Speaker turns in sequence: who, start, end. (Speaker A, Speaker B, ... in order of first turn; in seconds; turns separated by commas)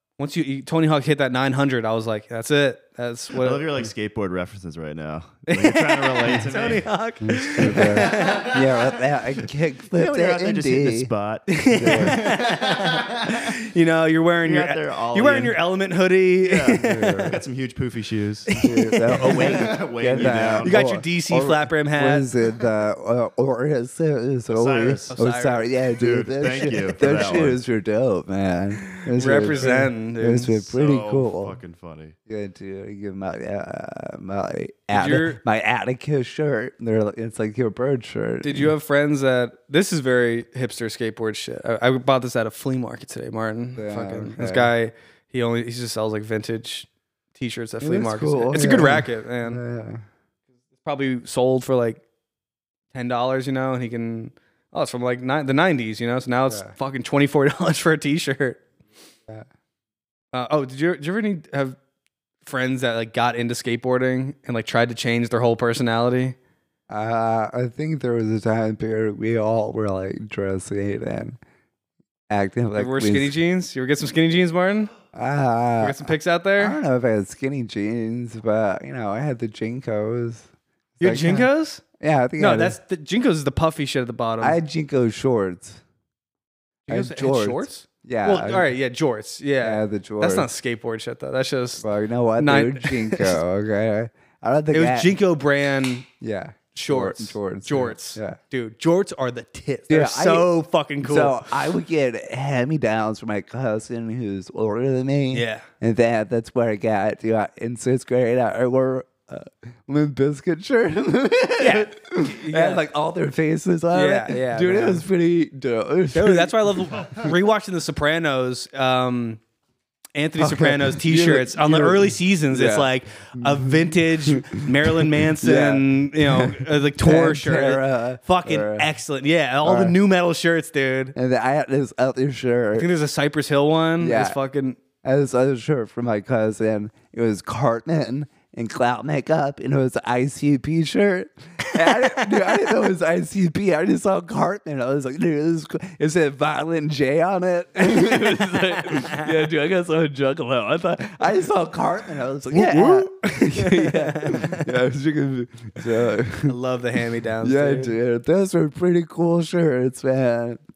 Speaker A: 0.2-3.7, Speaker B: 3.3-6.9, Speaker A: 5.5-8.7, Speaker C: 7.2-11.1, Speaker B: 7.6-8.6, Speaker B: 9.9-13.4, Speaker A: 11.5-17.3, Speaker C: 11.8-12.2, Speaker B: 14.4-15.6, Speaker B: 16.4-18.6, Speaker C: 16.8-17.4, Speaker A: 18.5-19.7, Speaker C: 18.6-31.6, Speaker B: 19.1-20.9, Speaker A: 20.2-22.2, Speaker B: 24.5-25.2, Speaker A: 25.1-25.7, Speaker B: 25.9-27.6, Speaker A: 26.5-27.3, Speaker A: 28.9-30.7, Speaker B: 30.7-32.1, Speaker C: 32.3-38.7, Speaker A: 34.9-35.4, Speaker A: 38.4-49.6, Speaker C: 43.8-44.7, Speaker C: 47.8-50.0, Speaker A: 50.8-52.0, Speaker A: 52.9-58.6, Speaker C: 56.5-56.7, Speaker A: 60.3-61.8, Speaker A: 62.4-66.3, Speaker C: 66.9-71.4, Speaker C: 72.3-73.3, Speaker A: 72.8-74.9, Speaker C: 75.1-80.5, Speaker A: 75.8-76.8, Speaker A: 81.0-81.8, Speaker C: 81.0-81.5, Speaker C: 82.0-82.8, Speaker A: 82.4-84.6, Speaker C: 84.4-85.8, Speaker C: 86.9-88.7, Speaker A: 86.9-91.8, Speaker C: 89.6-90.5, Speaker C: 91.8-95.1, Speaker A: 92.4-93.4, Speaker A: 94.7-96.1, Speaker C: 96.2-98.4, Speaker A: 96.7-101.5, Speaker C: 99.9-100.5, Speaker C: 101.0-117.3, Speaker A: 105.3-105.7, Speaker A: 111.6-112.8, Speaker A: 113.9-115.0, Speaker A: 116.1-119.4, Speaker A: 120.2-131.1, Speaker C: 120.4-128.9, Speaker C: 129.6-129.9, Speaker C: 131.1-132.9, Speaker A: 132.8-134.8, Speaker C: 134.0-134.4, Speaker C: 135.0-156.6, Speaker A: 141.7-142.5, Speaker A: 147.8-149.3, Speaker A: 152.5-154.7, Speaker A: 156.5-157.9, Speaker C: 157.4-160.6